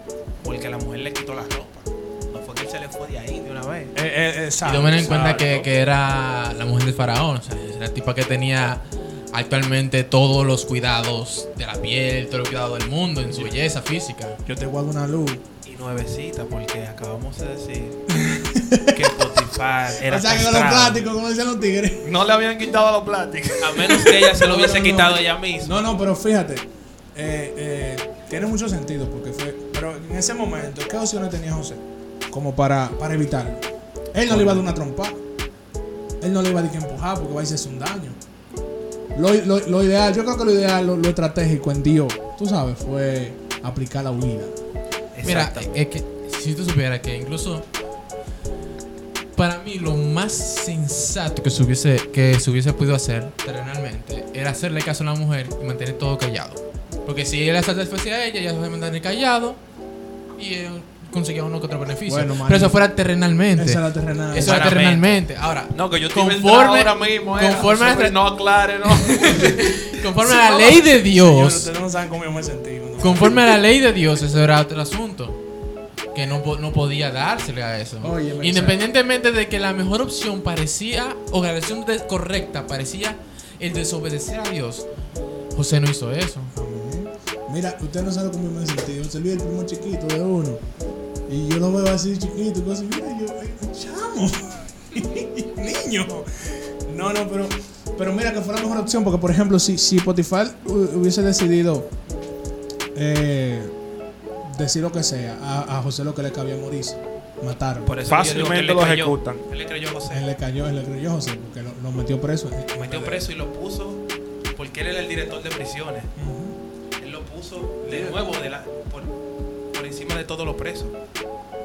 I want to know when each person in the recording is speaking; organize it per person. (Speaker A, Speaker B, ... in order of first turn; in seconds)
Speaker A: 0.4-3.9, 15.6-18.0, 18.9-21.0, 23.6-25.8, 34.3-34.6, 45.1-45.8, 64.6-64.9, 107.8-110.2, 112.8-116.1, 117.0-119.2, 119.7-120.9
Speaker B: 3.9-5.4, 14.4-15.4, 18.1-19.3, 20.0-22.1, 24.3-35.1, 36.2-38.2, 39.1-44.5, 62.0-62.8, 63.5-64.7, 71.1-73.6, 78.0-78.8, 86.5-90.6, 91.3-101.9, 102.9-103.7, 104.4-107.9, 110.1-113.2, 116.2-116.5, 117.8-118.2
Speaker C: 4.6-14.4, 45.2-47.6, 49.3-59.6, 60.4-68.3, 68.8-71.7, 73.0-75.4, 76.1-84.9, 85.5-86.5
Speaker D: 5.0-5.7, 22.0-24.2, 64.3-65.0, 65.7-70.9, 108.1-109.5